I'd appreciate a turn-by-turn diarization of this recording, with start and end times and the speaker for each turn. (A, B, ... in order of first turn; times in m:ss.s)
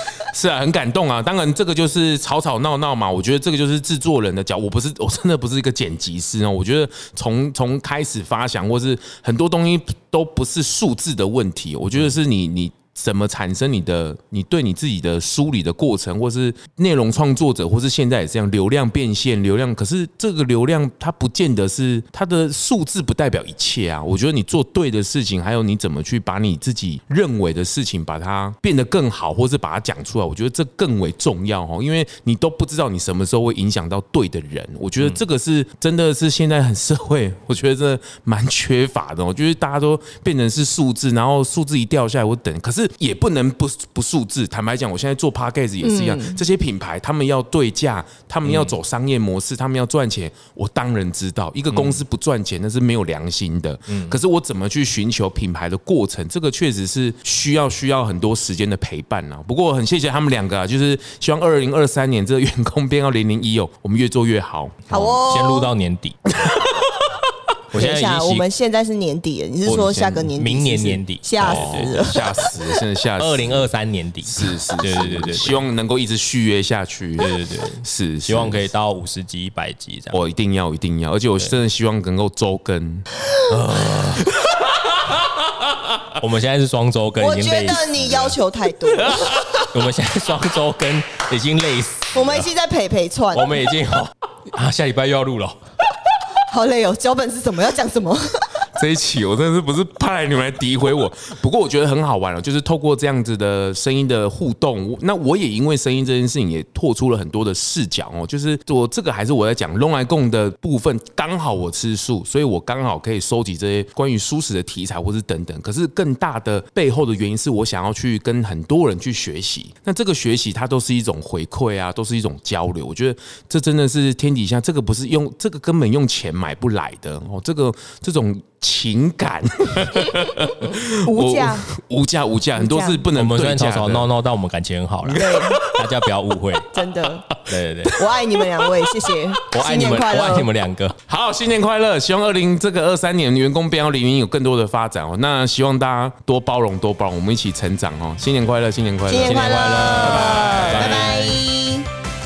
0:00.2-1:05.2 A
0:45.8-0:46.4 B
0:48.4-0:48.8 C
0:51.7-0:52.0 C
0:53.9-0:54.2 C
1:04.9-1:05.7 B
1:05.2-1:06.5 C
1:07.7-1:08.5 C
1:07.7-1:12.4 B
1:09.7-1:12.1 C
1:09.8-1:10.0 A
1:11.4-1:13.6 A
1:13.2-1:15.6 C
1:14.2-1:17.3 A
1:17.2-1:20.2 C
1:17.8-1:18.7 A
1:20.1-1:23.1 A
1:23.5-1:24.3 C
1:23.8-1:24.2 A
1:26.1-1:28.4 C
1:27.2-1:29.6 B
1:29.0-1:32.5 C
1:32.1-1:33.6 B
1:33.3-1:35.6 C
1:36.4-1:38.6 B
1:38.8-2:14.1 A
2:11.0-2:11.7 B
2:12.6-2:13.0 B
2:13.1-2:16.8 C
2:15.0-2:15.8 A
2:15.2-2:15.6 B
2:16.7-2:17.3 B
2:17.4-2:18.1 C
2:17.9-2:20.5 B
2:19.5-2:21.0 C
2:21.1-2:29.5 A
2:29.1-2:31.9 B
2:29.2-2:31.4 C
2:30.2-2:31.0 A